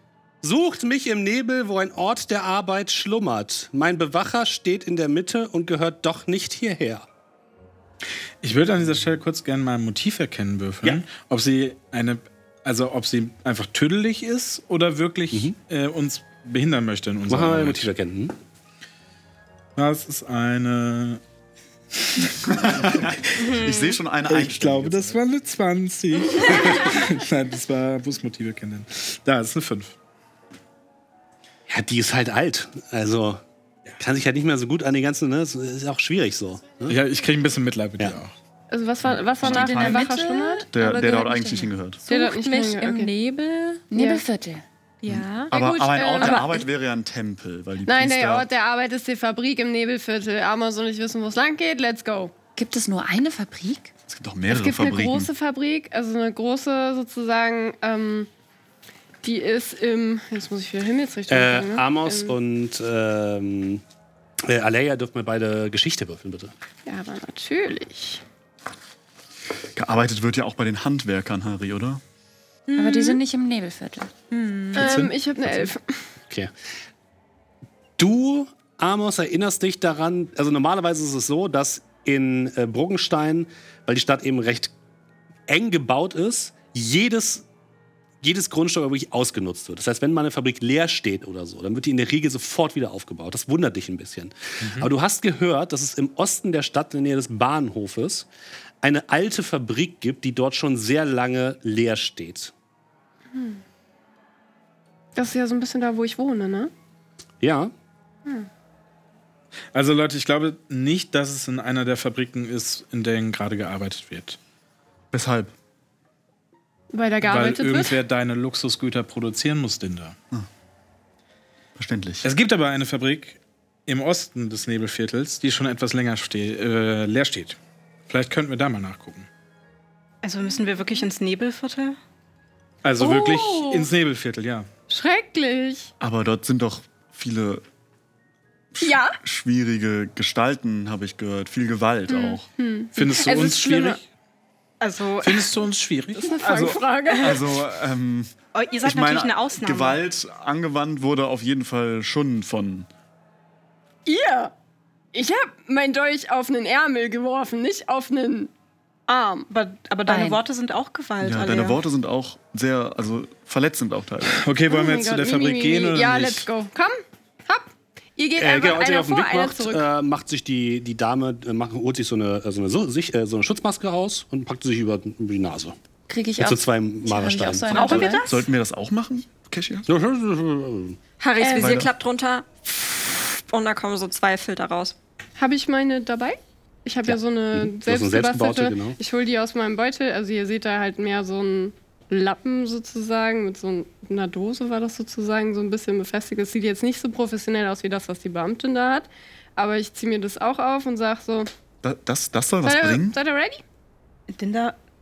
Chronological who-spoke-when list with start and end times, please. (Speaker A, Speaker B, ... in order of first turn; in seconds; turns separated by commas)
Speaker A: 0.4-7.1, Speaker B: 8.4-17.9, Speaker A: 17.3-18.4, Speaker B: 19.8-21.2, Speaker B: 22.0-23.5, Speaker C: 22.6-25.2, Speaker B: 24.2-29.9, Speaker A: 31.7-33.4, Speaker A: 34.0-37.0, Speaker B: 36.9-38.3, Speaker D: 38.7-40.7, Speaker C: 39.0-40.1, Speaker E: 39.4-41.7, Speaker C: 40.7-42.0, Speaker D: 42.1-43.1, Speaker F: 42.1-43.8, Speaker E: 43.9-44.6, Speaker D: 43.9-44.2, Speaker G: 45.0-45.5, Speaker C: 45.5-48.5, Speaker D: 45.5-46.6, Speaker F: 46.2-46.5, Speaker D: 47.9-52.3, Speaker E: 52.5-53.9, Speaker C: 54.1-55.3, Speaker D: 54.5-58.3, Speaker D: 59.2-62.3, Speaker A: 61.3-63.8, Speaker A: 64.4-66.5, Speaker D: 66.8-68.2, Speaker C: 69.7-72.0, Speaker G: 72.7-73.2, Speaker E: 72.7-75.0, Speaker D: 74.7-75.9, Speaker B: 74.8-75.1, Speaker A: 78.0-84.7, Speaker A: 85.5-87.5, Speaker A: 88.2-98.3, Speaker A: 98.8-102.5, Speaker D: 103.3-103.6, Speaker D: 105.1-106.7, Speaker A: 107.4-107.7, Speaker B: 109.7-114.4, Speaker C: 115.1-115.5, Speaker D: 116.9-118.0, Speaker B: 117.2-120.1, Speaker C: 121.8-122.3, Speaker B: 122.2-127.6, Speaker B: 128.1-129.3, Speaker G: 130.2-132.0, Speaker B: 132.8-134.7, Speaker D: 133.0-133.9, Speaker D: 134.9-135.9, Speaker C: 136.0-137.6, Speaker C: 138.8-142.4, Speaker D: 138.8-139.2, Speaker D: 142.1-144.0, Speaker B: 142.9-144.1, Speaker G: 144.8-145.5, Speaker B: 145.2-146.8, Speaker D: 146.1-147.5, Speaker C: 147.1-152.9, Speaker G: 148.5-150.0, Speaker D: 154.1-154.5, Speaker D: 155.1-158.5, Speaker D: 159.1-159.5, Speaker G: 159.5-161.8, Speaker E: 160.1-160.4, Speaker C: 161.2-164.4, Speaker B: 164.3-166.5, Speaker D: 164.7-169.8, Speaker A: 168.4-175.8, Speaker E: 176.1-178.2, Speaker A: 176.4-178.2, Speaker G: 177.7-178.4, Speaker C: 178.2-179.9, Speaker A: 179.9-181.0, Speaker F: 181.2-184.9, Speaker D: 181.4-181.8, Speaker C: 181.5-181.9, Speaker D: 185.4-201.5, Speaker A: 187.1-189.0, Speaker C: 201.8-203.2, Speaker D: 202.6-203.6, Speaker G: 204.3-204.8